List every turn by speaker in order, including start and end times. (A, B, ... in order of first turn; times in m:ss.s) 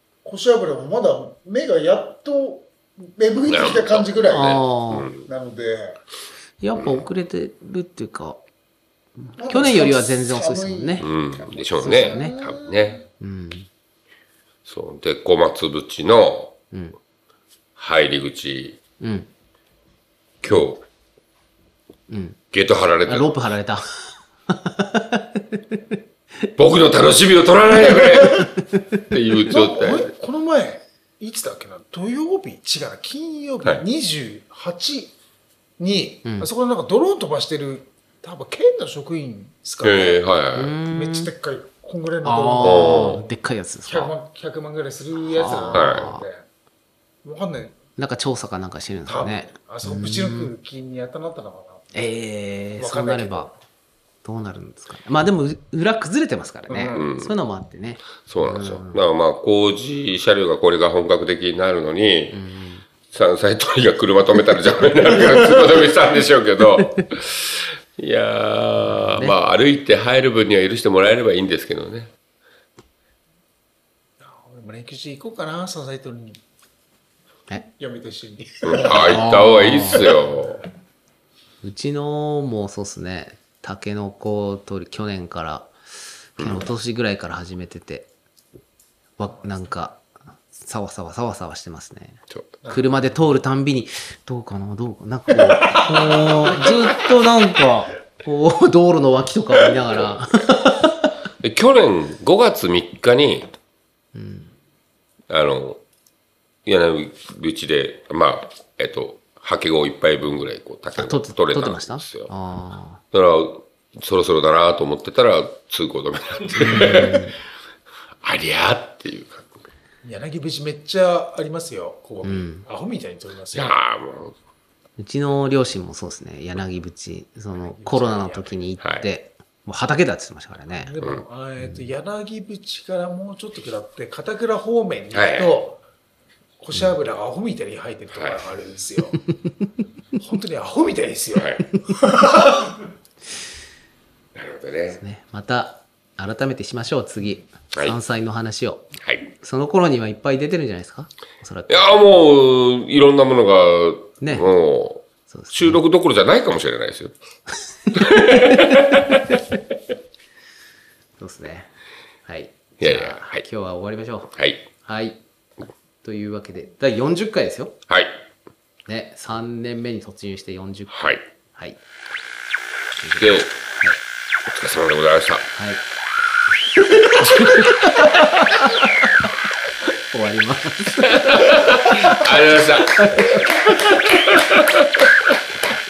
0:00.2-0:04.6 A
0:03.5-0:05.3 B
0:04.3-0:05.1 C
0:05.2-0:06.0 A
0:06.6-0:08.4 C
0:06.8-0:07.0 B
0:09.2-0:11.1 C
0:09.4-0:13.0 A
0:11.0-0:13.0 B
0:11.8-0:12.4 C
0:13.2-0:13.7 C
0:14.6-0:16.6 B
0:17.8-0:18.8 B
0:19.0-0:19.3 C
0:20.4-0:20.8 B
0:22.1-0:22.4 C
0:22.5-0:23.4 B
0:23.0-0:26.5 C
0:26.6-0:28.5 B
0:27.9-0:28.3 A
0:28.7-0:29.0 C
0:29.1-0:30.1 B
0:29.5-0:35.2 A
0:35.8-0:40.2 A
0:39.8-0:40.7 B
0:40.6-0:41.3 C
0:40.9-0:46.5 A
0:42.2-0:44.1 C
0:42.6-0:43.2 B
0:45.2-0:46.3 C
0:45.7-0:46.1 B
0:47.2-0:47.8 A
0:48.0-0:50.5 C
0:49.1-0:51.9 A
0:51.9-0:53.5 C
0:52.8-0:53.5 A
0:54.2-0:59.0 C
0:56.7-0:57.1 A
0:56.9-0:57.3 B
0:58.2-1:02.4 B
1:02.3-1:02.9 C
1:03.1-1:12.1 B
1:06.8-1:07.1 C
1:09.0-1:09.4 C
1:14.2-1:16.4 A
1:17.6-1:19.3 A
1:18.6-1:20.6 B
1:18.8-1:20.1 C
1:20.0-1:20.2 A
1:21.6-1:25.8 C
1:26.4-1:28.1 C
1:26.4-1:26.6 B
1:29.2-1:41.1 C
1:35.5-1:36.7 A
1:41.4-1:43.5 B
1:44.2-1:44.5 C
1:45.3-1:45.8 B
1:46.6-1:52.3 B
1:51.0-1:53.0 C
1:53.1-1:57.3 B
1:56.6-1:57.4 C
1:58.2-1:59.6 B
2:00.0-2:03.7 A
2:02.2-2:02.6 C
2:03.5-2:04.4 B
2:05.0-2:10.9 C
2:07.6-2:08.6 A
2:08.8-2:09.1 B
2:10.7-2:15.8 A
2:15.1-2:15.6 B
2:16.6-2:19.2 A
2:18.2-2:18.4 B
2:19.3-2:19.7 C
2:20.2-2:22.7 A
2:21.3-2:21.6 B
2:24.4-2:25.0 B
2:24.9-2:28.9 C
2:29.0-2:29.3 B
2:29.4-2:32.0 C
2:31.7-2:37.1 B
2:34.2-2:34.5 C
2:35.3-2:35.8 C
2:37.9-2:39.2 B
2:38.0-2:39.0 C
2:41.2-2:41.7 C
2:42.3-2:45.2 C
2:42.8-2:43.4 B
2:44.4-2:44.7 B
2:46.0-2:47.8 C
2:47.9-2:48.2 B
2:48.9-2:51.8 C
2:50.9-2:51.2 B
2:53.0-2:54.0 C
2:53.2-2:53.5 B
2:54.5-2:55.5 B
2:55.6-2:55.8 C
2:56.9-2:59.1 C
3:00.1-3:02.3 C
3:01.0-3:05.3 B
3:02.8-3:03.9 C